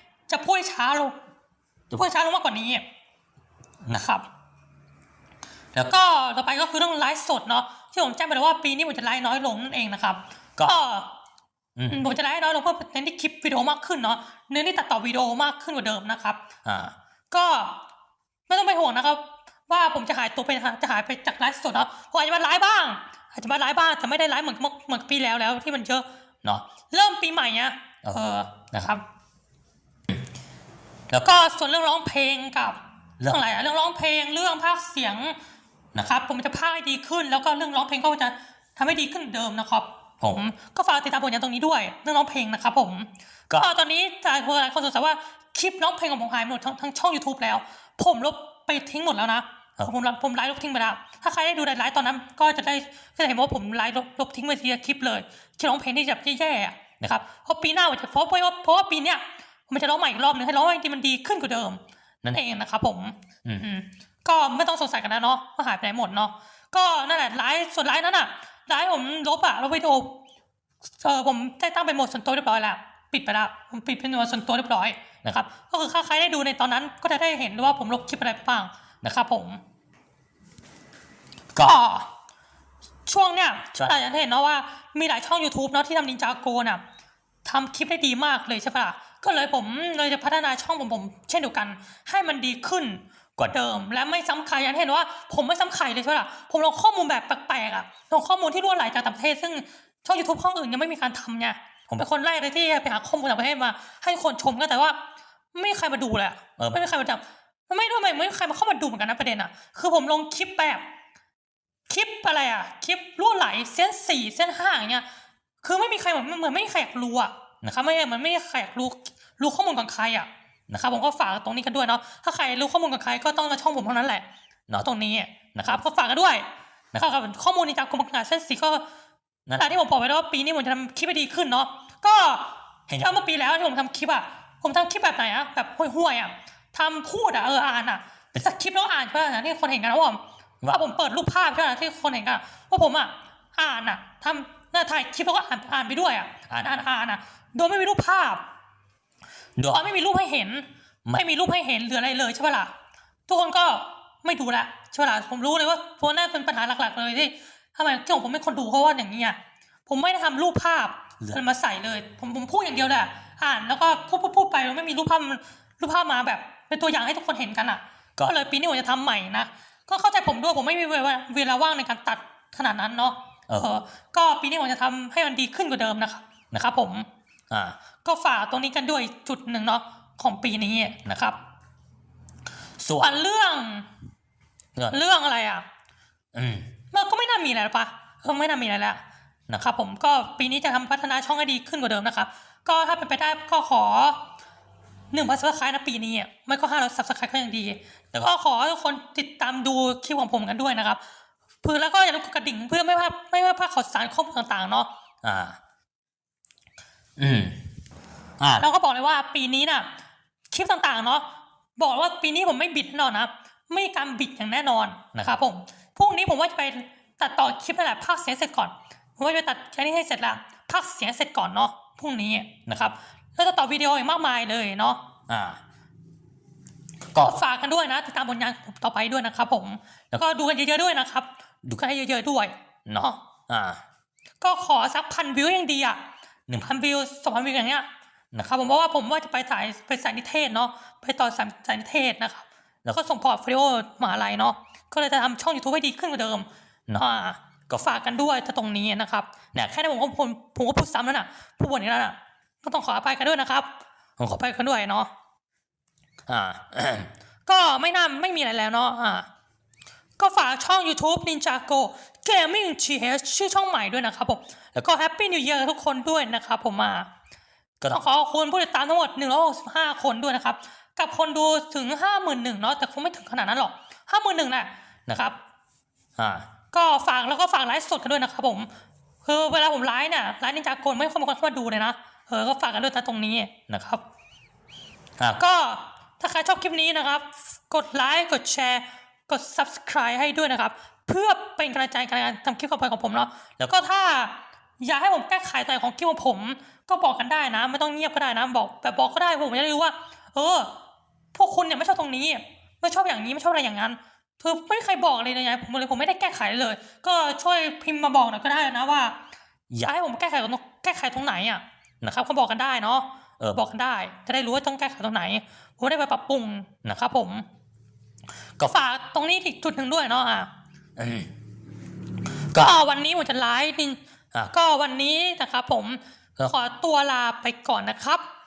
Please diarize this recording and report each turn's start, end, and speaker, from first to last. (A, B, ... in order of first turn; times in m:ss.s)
0:00.3-0:01.2 A
0:01.9-0:02.8 A
0:03.9-0:04.3 A
0:05.8-0:11.1 A
0:11.9-0:16.4 A
0:16.7-0:16.9 B
0:17.3-0:17.8 A
0:18.5-0:29.0 A
0:31.1-0:35.4 A
0:35.9-1:10.2 A
1:11.0-1:19.6 A
1:21.6-1:22.1 A
1:23.1-1:26.8 A
1:27.4-1:45.0 A
1:45.5-1:50.8 A
1:51.9-1:55.0 A
1:55.6-2:08.8 A
2:09.5-2:28.4 A
2:29.6-2:32.7 A
2:33.3-2:57.1 A
2:57.5-2:57.8 B
2:58.0-3:01.4 A
3:02.8-3:03.1 B
3:03.0-3:03.9 A
3:04.8-3:05.7 A
3:06.3-3:06.7 B
3:06.9-3:14.2 A
3:15.1-3:21.0 A
3:21.6-3:24.9 A
3:25.2-3:25.6 B
3:27.2-3:27.6 B
3:28.4-3:28.6 B
3:28.6-3:29.9 A
3:30.5-3:45.1 A
3:45.3-3:45.6 B
3:47.2-3:53.2 A
3:53.5-3:53.8 B
3:54.4-4:15.1 A
4:16.3-4:17.1 B
4:17.5-4:19.3 A
4:20.2-4:27.1 A
4:27.8-4:35.4 A
4:36.2-4:36.5 B
4:36.7-4:38.7 A
4:39.2-4:44.0 A
4:45.2-5:00.7 A
5:01.3-5:09.2 A
5:09.7-5:17.5 A
5:18.6-5:20.5 A
5:21.0-5:21.3 B
5:22.5-5:28.2 A